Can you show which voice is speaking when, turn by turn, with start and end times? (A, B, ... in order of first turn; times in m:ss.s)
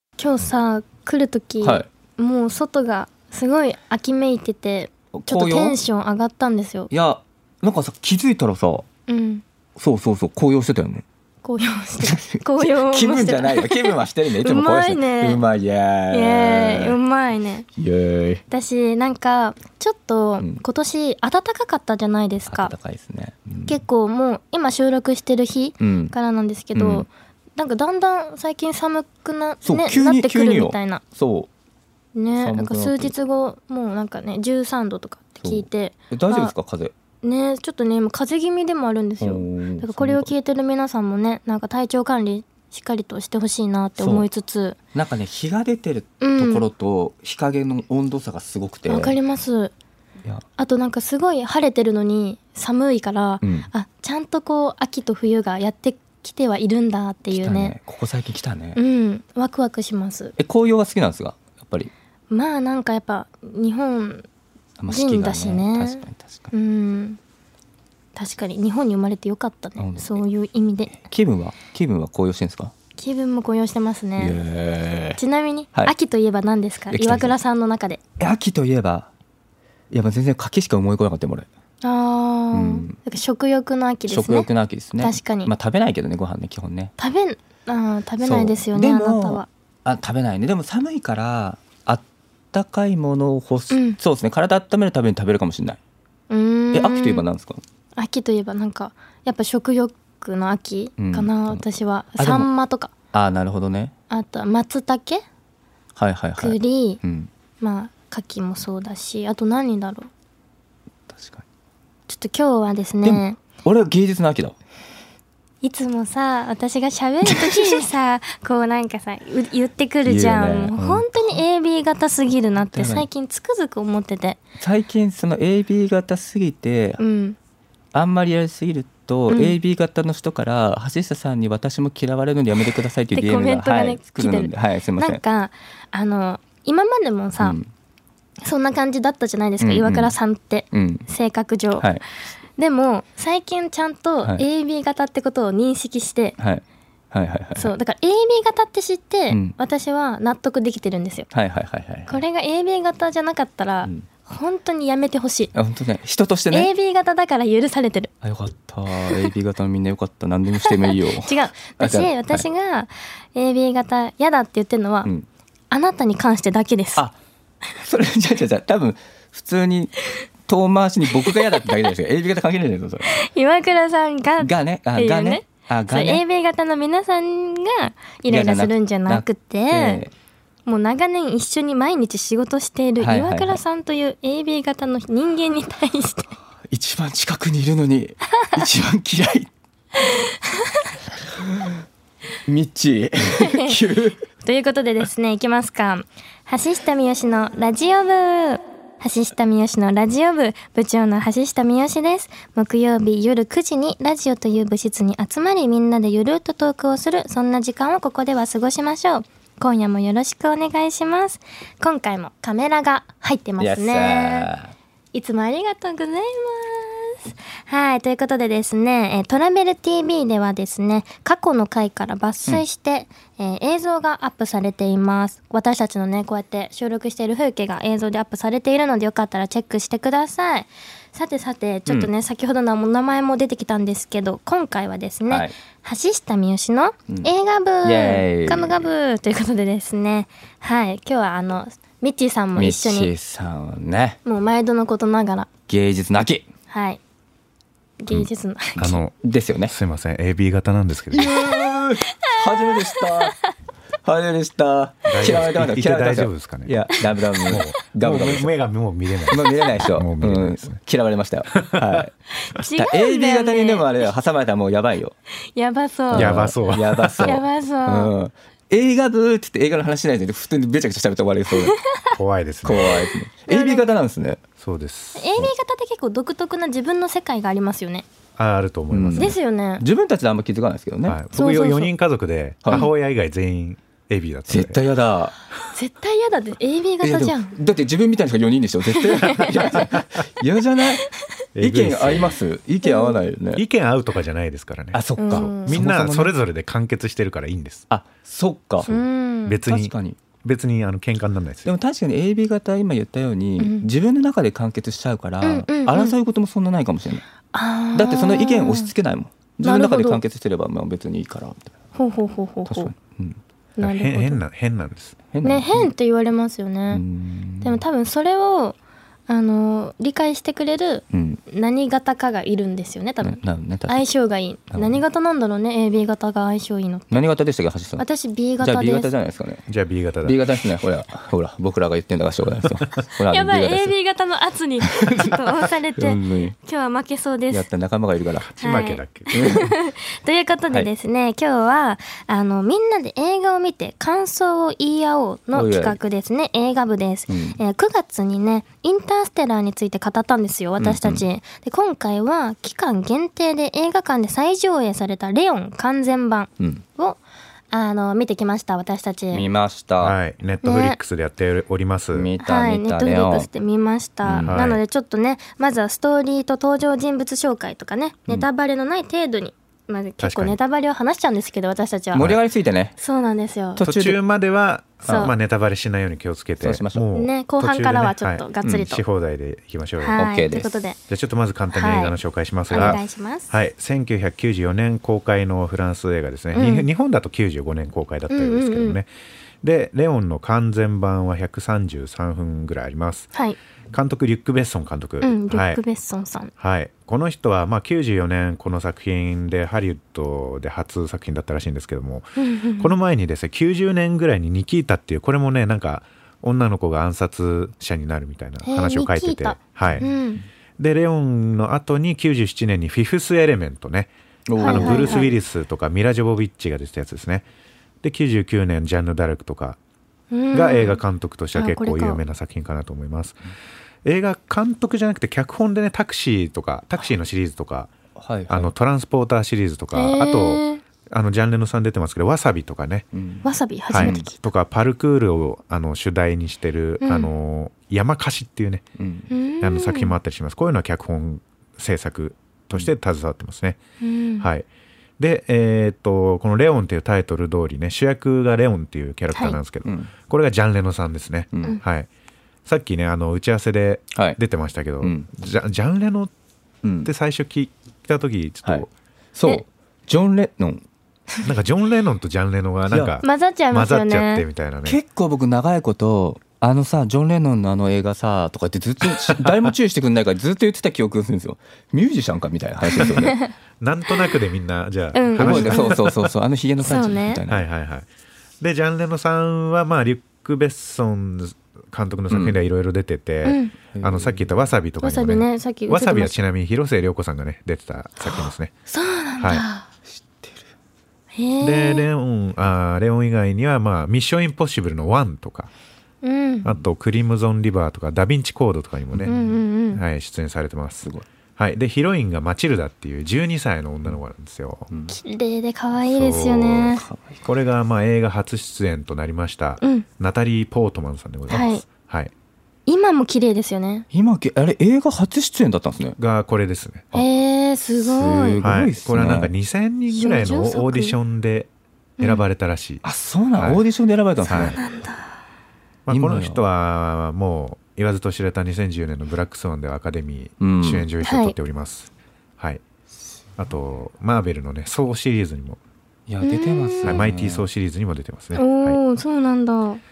0:00.2-0:06.9 A
0:01.6-0:01.8 B
0:05.1-0:05.8 B
0:06.9-0:08.8 B
0:09.1-0:09.4 A
0:09.8-0:11.0 B
0:11.4-0:15.4 A
0:12.0-0:17.0 B
0:16.1-0:17.6 A
0:17.8-0:18.4 B
0:18.5-0:22.7 A
0:22.5-0:23.8 B
0:23.6-0:31.0 A
0:25.8-0:26.1 B
0:26.7-0:27.1 B
0:29.6-0:31.5 B
0:32.1-0:36.5 A
0:32.4-0:33.1 B
0:35.4-0:36.9 B
0:37.2-0:44.8 A
0:39.2-0:40.3 B
0:44.0-0:44.3 B
0:44.9-0:49.2 B
0:46.2-0:46.6 A
0:48.9-0:49.7 A
0:50.6-0:57.7 A
0:53.4-0:53.7 B
0:57.3-0:58.8 B
0:58.7-1:00.3 A
1:00.4-1:01.9 B
1:02.3-1:04.2 A
1:04.8-1:06.5 B
1:04.9-1:07.2 A
1:08.2-1:11.0 A
1:09.8-1:10.2 B
1:10.9-1:12.7 B
1:13.0-1:14.4 A
1:14.2-1:15.2 B
1:15.2-1:18.0 A
1:16.9-1:17.3 B
1:18.2-1:19.1 B
1:19.9-1:21.5 B
1:21.8-1:24.5 A
1:22.5-1:23.0 B
1:24.1-1:26.9 B
1:25.0-1:25.5 A
1:27.0-1:29.5 A
1:28.2-1:35.8 B
1:33.7-1:34.0 A
1:36.3-1:37.2 A
1:36.7-1:37.6 B
1:38.0-1:42.9 A
1:41.0-1:41.6 B
1:42.2-1:42.5 B
1:43.1-1:43.9 B
1:44.1-1:45.2 A
1:46.0-1:47.3 B
1:46.4-1:47.0 A
1:47.6-1:50.1 A
1:51.1-1:51.4 B
1:52.1-1:53.4 A
1:53.0-1:54.6 B
1:55.6-2:04.4 A
1:57.2-1:57.8 B
2:00.0-2:01.4 B
2:02.7-2:03.1 B
2:04.6-2:07.0 B
2:07.0-2:07.4 A
2:07.9-2:15.2 B
2:09.3-2:09.5 A
2:13.1-2:17.6 A
2:17.4-2:17.7 B
2:18.4-2:22.0 A
2:19.6-2:20.1 B
2:20.7-2:21.1 B
2:21.8-2:22.0 B
2:22.6-2:26.4 A
2:26.4-2:27.7 B
2:27.6-2:31.3 A
2:29.3-2:29.5 B
2:31.3-2:32.2 B
2:32.1-2:35.5 A
2:35.5-2:36.7 B
2:36.5-2:38.1 A
2:38.2-2:42.5 B
2:39.0-2:39.3 A
2:40.5-2:45.1 A
2:45.7-2:47.0 A
2:47.8-2:53.1 B
2:51.2-2:51.9 A
2:53.1-3:00.0 A
2:54.4-2:56.2 B
2:58.3-3:00.1 B
3:00.6-3:06.3 A
3:03.0-3:03.6 B
3:06.6-3:09.5 B
3:10.0-3:11.0 A
3:11.4-3:11.8 B
3:12.4-3:14.2 B
3:13.3-3:13.8 A
3:14.4-3:34.5 A
3:33.6-3:34.7 B
3:35.1-4:03.1 A
3:55.3-3:55.5 B
3:57.8-3:58.9 B
4:02.6-4:04.2 B
4:04.2-4:05.5 A
4:05.7-4:06.4 B
4:06.7-4:07.0 A
4:08.0-4:09.0 A
4:08.8-4:09.1 C
4:08.8-4:09.7 B
4:09.7-4:11.4 C
4:11.1-4:13.4 B
4:11.2-4:13.5 A
4:14.0-4:18.5 B
4:15.1-4:16.8 C
4:17.5-4:20.8 C
4:19.3-4:22.1 B
4:19.4-4:19.8 A
4:21.5-4:22.0 C
4:22.4-4:24.0 A
4:22.7-4:25.1 B
4:25.5-4:26.4 A
4:26.1-4:31.8 B
4:26.1-4:27.4 C
4:27.2-4:28.1 A
4:31.6-4:32.2 A
4:32.1-4:32.9 C
4:32.6-4:34.4 B
4:33.5-4:33.9 A
4:34.6-4:35.3 C
4:35.2-4:38.0 A
4:38.4-4:39.4 C
4:38.9-4:41.2 B
4:39.2-4:39.8 A
4:41.0-4:44.8 C
4:41.3-4:41.9 A
4:44.5-4:45.3 B
4:45.7-4:47.6 A
4:47.0-4:51.1 B
4:48.9-4:49.8 A
4:49.4-4:50.0 C
4:51.5-4:52.4 C
4:51.6-4:53.6 B
4:52.8-4:53.2 A
4:53.5-4:57.9 C
4:54.9-4:56.3 B
4:55.2-4:55.8 A
4:57.9-4:58.9 B
4:58.8-5:01.7 C
4:58.8-4:59.6 A
4:59.6-5:00.2 B
5:01.6-5:07.2 B
5:03.6-5:03.8 A
5:05.4-5:06.1 A
5:07.5-5:08.9 A
5:07.9-5:11.7 B
5:09.6-5:10.2 A
5:12.0-5:12.9 A
5:12.7-5:13.4 B
5:13.8-5:14.4 A
5:13.8-5:15.1 C
5:15.3-5:15.9 B
5:15.4-5:17.0 A
5:16.9-5:17.8 B
5:17.6-5:18.8 A
5:19.3-5:27.1 A
5:21.1-5:21.4 B
5:23.2-5:24.0 B
5:24.7-5:25.0 B
5:27.1-5:28.0 B
5:28.0-5:29.1 A
5:28.6-5:29.6 B
5:29.7-5:30.4 C
5:30.2-5:33.9 B
5:33.3-5:37.7 A
5:34.9-5:35.4 B
5:36.0-5:36.6 B
5:37.5-5:38.5 B
5:38.4-5:39.3 C
5:38.6-5:57.2 A
5:39.3-5:39.7 B
5:45.5-5:46.0 B
5:47.3-5:47.6 B
5:50.8-5:51.2 B
5:57.7-5:59.4 A
5:59.3-6:00.2 B
6:00.0-6:02.3 C
6:00.6-6:01.0 A
6:02.1-6:03.5 B
6:02.4-6:12.4 A
6:04.2-6:04.6 B
6:04.4-6:04.8 C
6:10.2-6:10.6 C
6:12.1-6:13.0 B
6:13.0-6:13.8 A
6:13.8-6:14.2 B
6:13.8-6:20.2 C
6:15.0-6:15.3 A
6:15.0-6:15.3 B
6:16.6-6:17.0 B
6:17.1-6:19.0 A
6:20.0-6:21.0 A
6:20.2-6:20.8 B
6:21.1-6:29.1 C
6:21.7-6:22.2 A
6:22.7-6:23.5 A
6:26.5-6:26.9 A
6:28.3-6:29.0 A
6:29.6-6:33.3 C
6:33.9-6:35.8 C
6:35.2-6:36.5 A
6:36.6-6:50.0 C
6:42.4-6:42.9 A
6:48.6-6:50.4 A
6:49.9-6:50.2 B
6:50.8-6:57.4 C
6:54.5-6:55.3 B
6:54.6-6:55.3 A
6:58.0-6:59.8 C
7:00.3-7:01.0 A
7:00.5-7:03.4 C
7:01.5-7:02.2 A
7:04.0-7:07.9 C
7:08.2-7:08.7 B
7:08.5-7:13.0 C
7:09.9-7:10.8 A
7:13.1-7:14.3 B
7:13.4-7:14.4 A
7:13.9-7:18.8 C
7:17.0-7:17.3 A
7:19.0-7:19.3 B
7:19.3-7:20.1 A
7:19.6-7:23.8 C
7:24.0-7:24.5 A
7:24.4-7:24.7 C
7:25.2-7:32.1 C
7:29.8-7:30.1 B
7:31.5-7:31.8 B
7:32.6-7:36.3 C
7:34.1-7:34.4 B
7:35.0-7:35.3 B
7:36.8-7:37.1 B
7:37.0-7:38.9 C
7:38.6-7:40.8 B
7:41.4-7:45.0 C
7:42.9-7:43.2 B
7:43.2-7:44.4 A
7:44.8-7:53.4 B
7:49.3-7:49.7 C
7:53.2-7:53.5 A
7:53.8-7:56.3 C
7:55.1-7:56.0 A
7:55.4-7:57.6 B
7:56.8-7:57.4 A
7:57.5-7:58.1 C
7:58.6-8:08.7 C
8:02.3-8:02.6 B
8:03.4-8:03.7 A
8:03.9-8:04.6 B
8:05.0-8:06.4 A
8:08.2-8:09.9 A
8:09.4-8:09.6 C
8:10.1-8:10.6 B
8:11.3-8:12.1 A
8:11.6-8:15.7 C
8:16.2-8:16.7 A
8:16.6-8:19.4 C
8:19.1-8:19.5 B
8:19.3-8:20.0 A
8:19.9-8:24.9 C
8:24.9-8:25.2 B
8:25.1-8:27.0 A
8:26.0-8:32.3 C
8:27.0-8:27.4 B
8:29.8-8:30.0 A
8:31.5-8:31.8 A
8:32.9-8:34.0 A
8:34.1-8:36.2 B
8:36.2-8:37.1 C
8:37.1-8:38.6 A
8:38.0-8:39.5 B
8:38.6-8:43.0 C
8:40.1-8:41.2 A
8:43.0-8:44.8 B
8:43.6-8:43.8 C
8:44.5-8:45.3 A
8:44.5-8:44.8 C
8:46.0-8:52.8 C
8:46.1-8:46.6 B
8:50.6-8:51.1 B
8:51.2-8:51.5 A
8:53.6-8:55.8 C
8:56.3-8:57.6 B
8:56.4-8:57.2 A
8:57.0-8:59.0 C
8:58.5-9:00.0 A